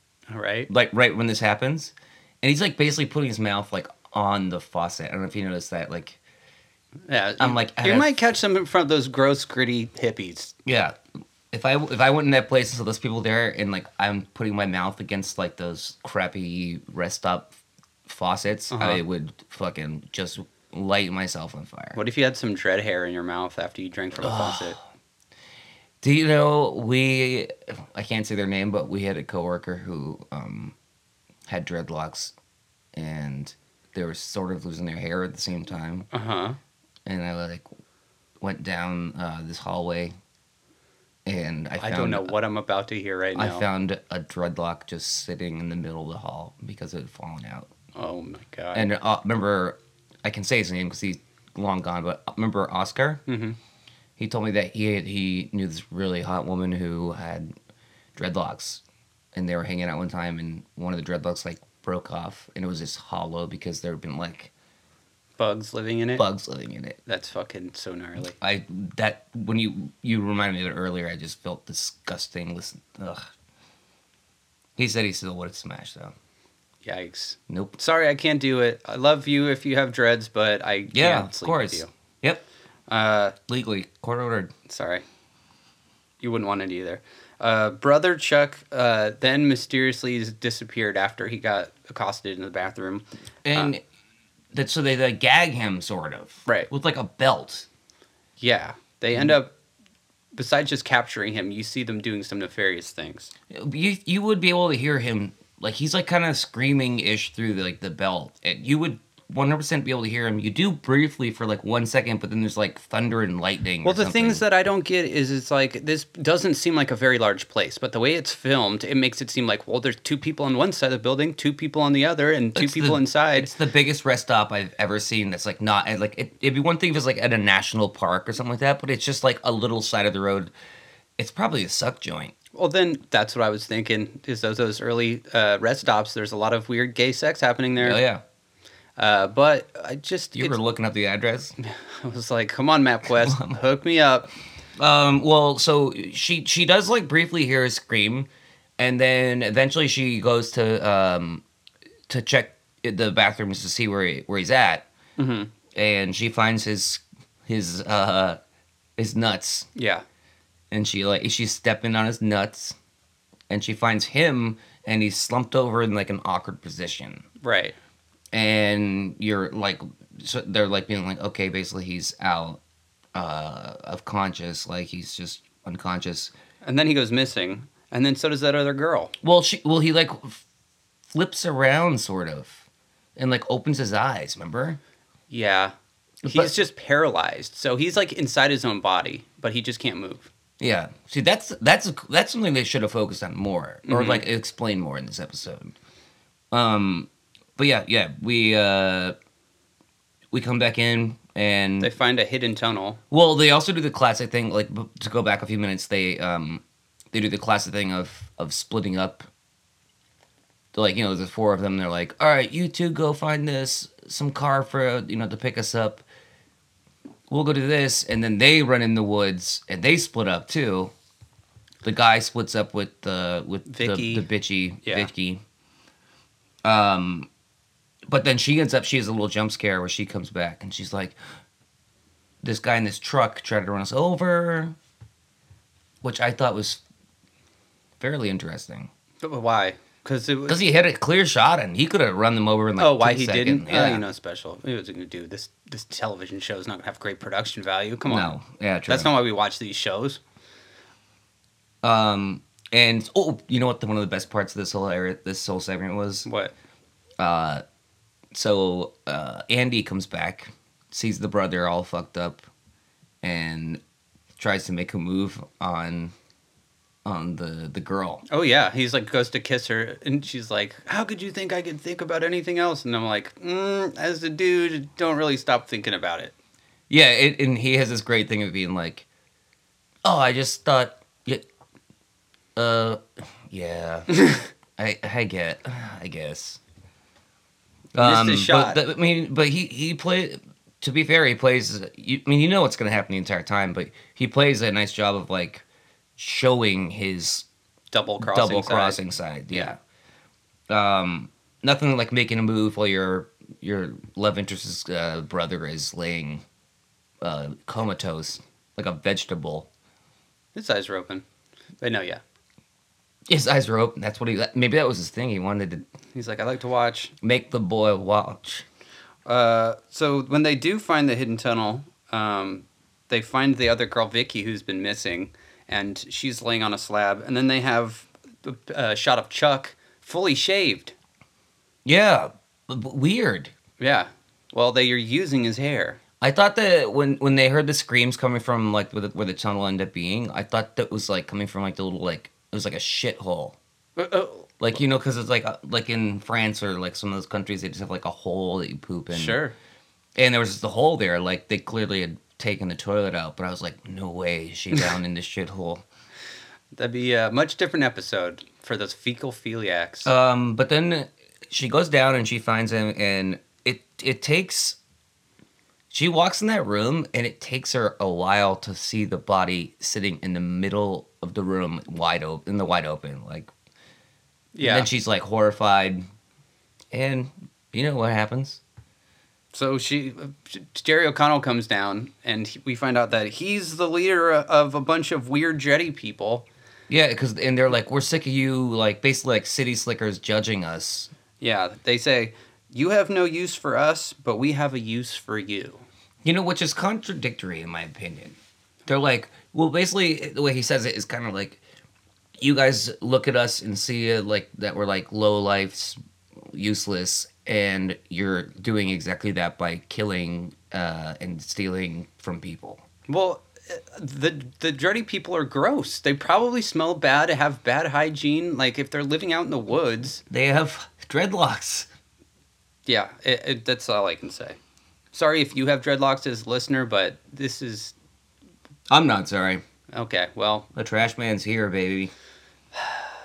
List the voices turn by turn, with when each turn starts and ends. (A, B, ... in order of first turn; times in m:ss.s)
0:00.3-0:00.7 A
0:00.7-0:06.2 B
0:07.1-0:10.5 A
0:07.4-0:08.2 B
0:10.6-0:11.0 B
0:11.5-0:22.0 B
0:18.7-0:19.0 A
0:21.9-0:24.8 A
0:24.2-0:24.8 B
0:26.0-0:30.7 B
0:31.5-0:32.3 B
0:32.9-0:36.1 B
0:36.1-0:36.6 A
0:37.0-0:37.7 B
0:38.4-0:40.1 B
0:41.2-0:42.3 B
0:41.8-0:43.6 A
0:43.3-0:47.7 B
0:47.9-0:48.9 A
0:48.7-0:53.2 B
0:53.3-0:53.6 A
0:54.2-0:57.5 B
0:58.2-0:58.8 B
0:59.3-1:04.5 B
1:05.4-1:06.2 A
1:06.2-1:07.0 B
1:07.0-1:08.3 A
1:08.4-1:13.3 B
1:14.8-1:16.1 B
1:16.8-1:21.9 A
1:17.5-1:17.8 B
1:20.9-1:22.4 B
1:22.9-1:23.3 A
1:23.5-1:24.5 B
1:24.7-1:25.0 A
1:26.2-1:33.7 A
1:33.4-1:33.8 B
1:34.5-1:37.6 B
1:38.4-1:39.5 A
1:40.3-1:43.3 A
1:43.5-1:54.4 B
1:53.8-2:03.5 A
2:02.6-2:10.5 B
2:11.2-2:12.3 B
2:12.5-2:18.0 A
2:17.8-2:18.2 B
2:19.0-2:20.6 A
2:20.3-2:21.5 B
2:21.6-2:24.3 A
2:23.2-2:23.6 B
2:24.8-2:31.4 B
2:32.1-2:34.8 B
2:35.2-2:35.5 A
2:35.7-2:38.4 B
2:39.0-2:39.7 B
2:39.8-2:40.0 A
2:40.7-2:42.8 B
2:43.5-2:47.2 B
2:47.4-2:47.8 A
2:48.3-2:52.6 B
2:53.1-2:56.3 B
2:56.6-2:59.1 A
2:59.2-3:00.4 B
3:01.1-3:02.6 B
3:03.2-3:04.8 B
3:05.3-3:10.3 A
3:06.2-3:06.5 B
3:10.6-3:15.7 B
3:13.8-3:14.2 A
3:16.5-3:19.2 B
3:20.3-3:21.9 B
3:21.8-3:23.0 A
3:23.1-3:29.3 B
3:30.7-3:36.0 B
3:37.3-3:40.9 B
3:41.8-3:45.4 B
3:43.7-3:44.3 A
3:44.8-3:45.1 A
3:46.6-3:47.3 B
3:48.1-3:51.2 B
3:52.4-3:54.8 B
3:56.0-3:56.8 B
3:58.0-3:58.9 B
3:59.2-4:00.6 A
4:00.5-4:04.0 B
4:02.8-4:08.3 A
4:08.0-4:09.1 B
4:08.9-4:10.2 A
4:11.8-4:16.3 B
4:16.2-4:16.5 A
4:17.2-4:17.6 B
4:18.3-4:22.5 B
4:23.2-4:23.8 B
4:24.4-4:26.1 B
4:27.0-4:28.2 B
4:28.3-4:36.3 A
4:36.9-4:39.0 B
4:40.0-4:41.4 B
4:42.6-4:44.1 B
4:44.8-4:46.6 B
4:47.9-4:55.6 B
4:48.0-4:48.8 A
4:56.2-4:57.4 B
4:57.9-4:59.7 A
4:58.2-4:59.8 B
5:00.7-5:06.4 B
5:07.2-5:09.7 B
5:10.5-5:11.2 A
5:11.8-5:12.2 A
5:13.3-5:15.8 B
5:16.1-5:17.1 A
5:17.2-5:18.6 B
5:19.2-5:30.9 A
5:31.8-5:33.5 B
5:33.8-5:36.0 A
5:36.2-5:43.6 B
5:44.0-5:44.5 A
5:44.6-5:49.4 B
5:49.1-5:49.5 A
5:50.2-5:55.8 B
5:56.7-6:00.1 A
6:00.0-6:04.8 B
6:05.9-6:13.5 B
6:14.5-6:14.9 A
6:14.6-6:16.0 B
6:16.9-6:18.6 B
6:19.5-6:26.4 A
6:26.9-6:31.1 B
6:31.4-6:35.8 A
6:36.2-6:41.6 B
6:42.4-6:46.0 B
6:46.5-6:52.8 B
6:53.1-7:00.2 A
7:00.3-7:01.9 B
7:02.8-7:04.6 A
7:05.1-7:07.9 A
7:08.9-7:09.6 B
7:09.9-7:10.7 A
7:10.7-7:12.1 B